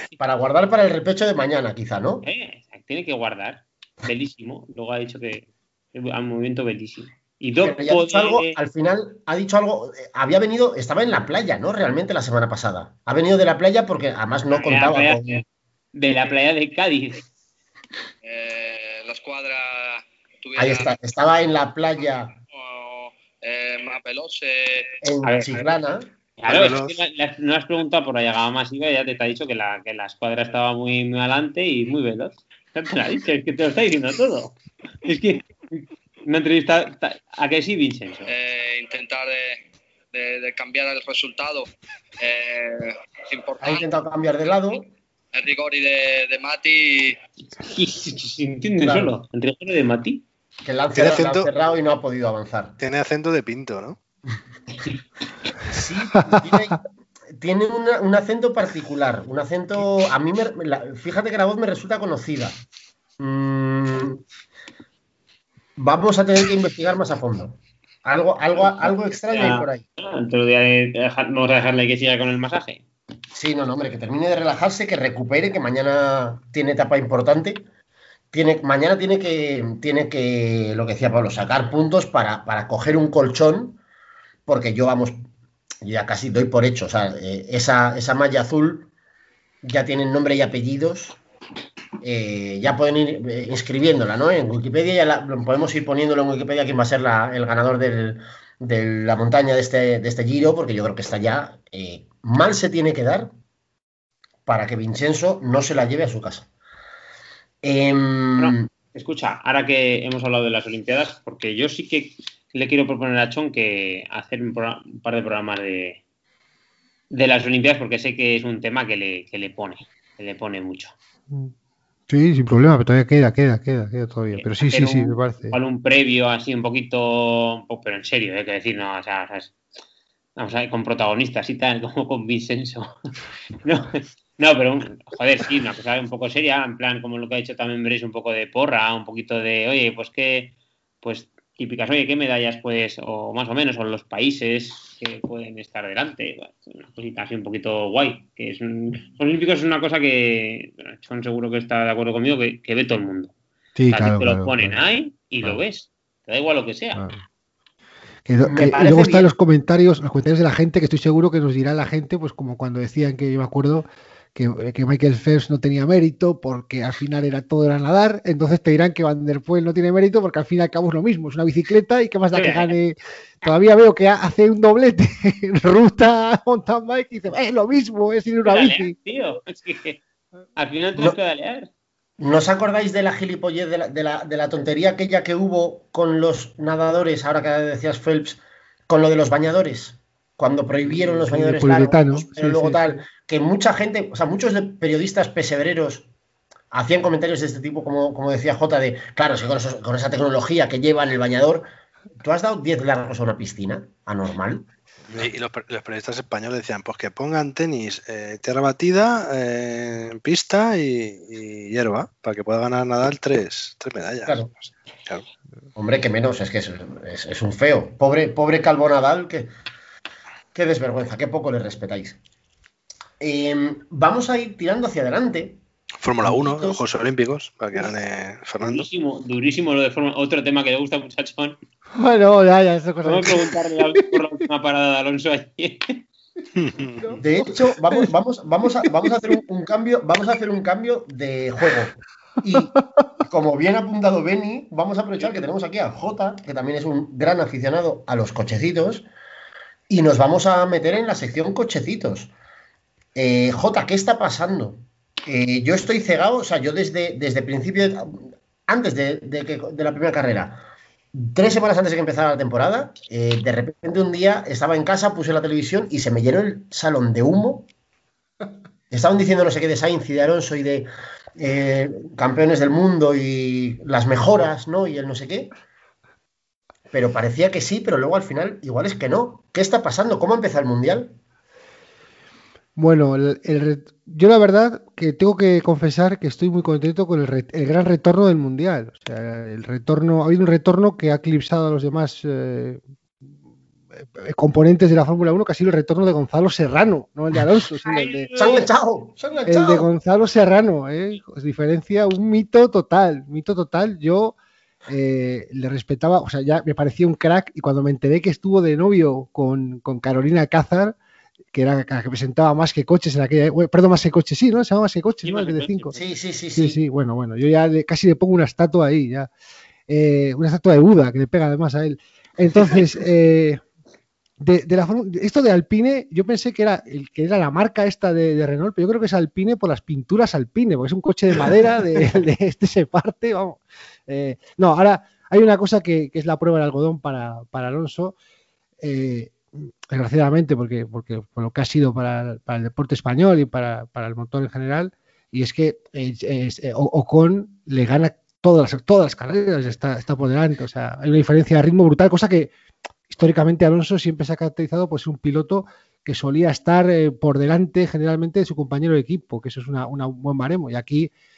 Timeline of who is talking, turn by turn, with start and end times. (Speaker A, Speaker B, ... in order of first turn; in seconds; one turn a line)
Speaker A: 0.2-2.3
Speaker B: 2.2-8.6
Speaker A: 7.6-15.4
Speaker B: 14.5-17.2
Speaker C: 18.2-20.9
Speaker A: 20.6-22.4
Speaker C: 22.5-24.9
Speaker A: 25.0-26.1
Speaker B: 25.2-25.6
Speaker B: 26.4-38.3
Speaker D: 26.5-26.9
Speaker C: 38.3-43.9
Speaker A: 43.6-44.9
Speaker C: 45.3-47.2
Speaker B: 47.6-50.2
Speaker A: 48.8-49.1
Speaker A: 50.6-52.8
Speaker D: 50.9-51.5
Speaker D: 52.8-54.0
Speaker A: 55.7-56.8
Speaker E: 56.1-56.7
Speaker A: 57.4-62.6
Speaker A: 63.2-64.2
Speaker A: 65.8-69.8
Speaker B: 68.8-72.8
Speaker A: 73.3-77.6
Speaker A: 78.3-83.8
Speaker A: 84.5-85.2
Speaker A: 85.8-88.9
Speaker A: 89.6-91.2
Speaker A: 92.0-103.3
Speaker A: 104.5-106.5
Speaker A: 107.6-108.7
Speaker B: 108.4-116.0
Speaker B: 117.1-120.9
Speaker E: 122.1-125.6
Speaker B: 124.3-129.5
Speaker B: 130.4-132.9
Speaker B: 133.6-153.3
Speaker E: 153.8-154.8
Speaker B: 153.9-157.0
Speaker E: 156.9-157.2
Speaker E: 158.3-178.9
Speaker A: 158.4-159.3
Speaker B: 172.3-172.7
Speaker B: 178.4-180.0
Speaker B: 180.6-181.7
Speaker A: 182.2-196.1
Speaker E: 191.0-193.0
Speaker A: 196.7-201.6
Speaker A: 202.2-205.3
Speaker D: 205.1-215.2
Speaker A: 215.8-219.5
Speaker A: 220.5-222.2
Speaker A: 223.2-225.6
Speaker D: 226.0-228.9
Speaker A: 226.2-226.8
Speaker B: 228.6-231.6
Speaker E: 231.9-234.2
Speaker B: 233.0-236.0
Speaker D: 236.6-237.1
Speaker E: 237.0-238.1
Speaker A: 237.2-242.7
Speaker A: 243.3-249.1
Speaker A: 249.9-252.3
Speaker A: 253.1-258.1
Speaker A: 258.7-267.7
Speaker A: 268.9-270.9
Speaker A: 271.4-275.5
Speaker A: 276.9-281.1
Speaker E: 282.8-292.8
Speaker E: 294.0-298.4
Speaker B: 297.9-298.6
Speaker A: 298.3-299.9
Speaker E: 299.4-304.3
Speaker E: 304.9-310.9
Speaker E: 311.5-315.9
Speaker B: 315.2-315.9
Speaker A: 315.9-316.8
Speaker E: 316.6-319.3
Speaker E: 319.9-323.6
Speaker E: 324.4-338.1
Speaker E: 338.8-352.5
Speaker E: 353.1-361.1